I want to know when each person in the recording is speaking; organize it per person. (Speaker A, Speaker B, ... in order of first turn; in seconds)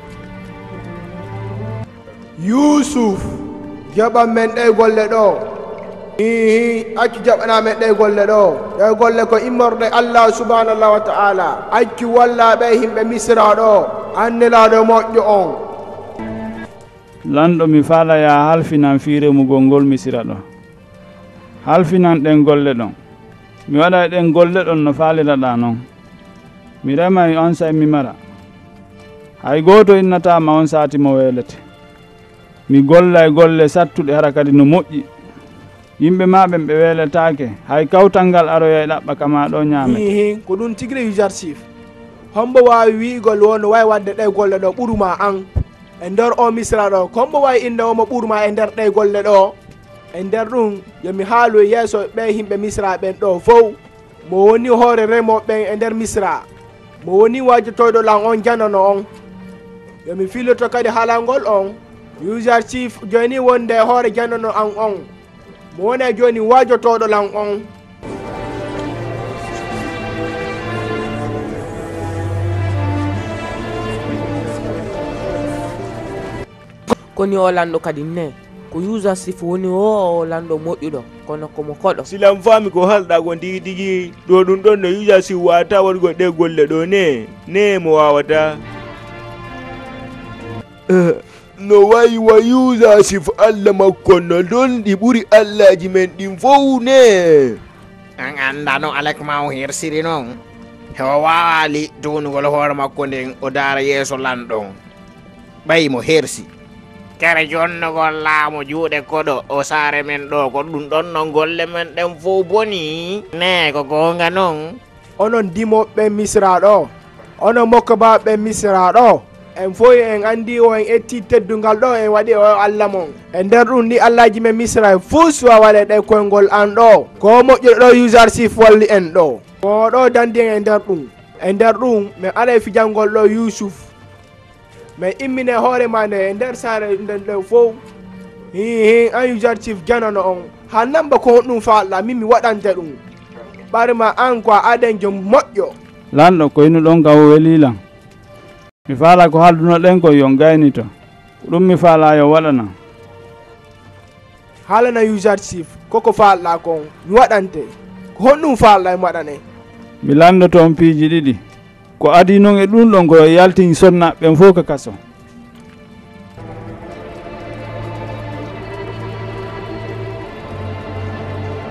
Speaker A: 2.4-5.5, 6.2-15.6, 39.8-41.6, 42.3-45.5, 46.0-49.5, 50.1-56.5, 57.0-59.1, 60.0-65.1, 65.7-67.7, 115.2-133.9, 135.0-137.8, 138.5-143.0, 143.7-145.8, 154.7-159.4
Speaker B: 17.3-20.4, 21.6-22.9, 23.7-25.8, 26.8-28.2, 29.4-31.6, 32.7-35.1, 36.0-40.0, 146.1-147.8, 148.9-150.9, 151.4-152.7, 160.0-161.4, 162.0-165.0
Speaker C: 77.2-82.1
Speaker D: 82.1-88.6, 90.9-97.6
Speaker E: 98.2-100.4, 101.0-104.8, 105.7-106.5, 107.2-114.8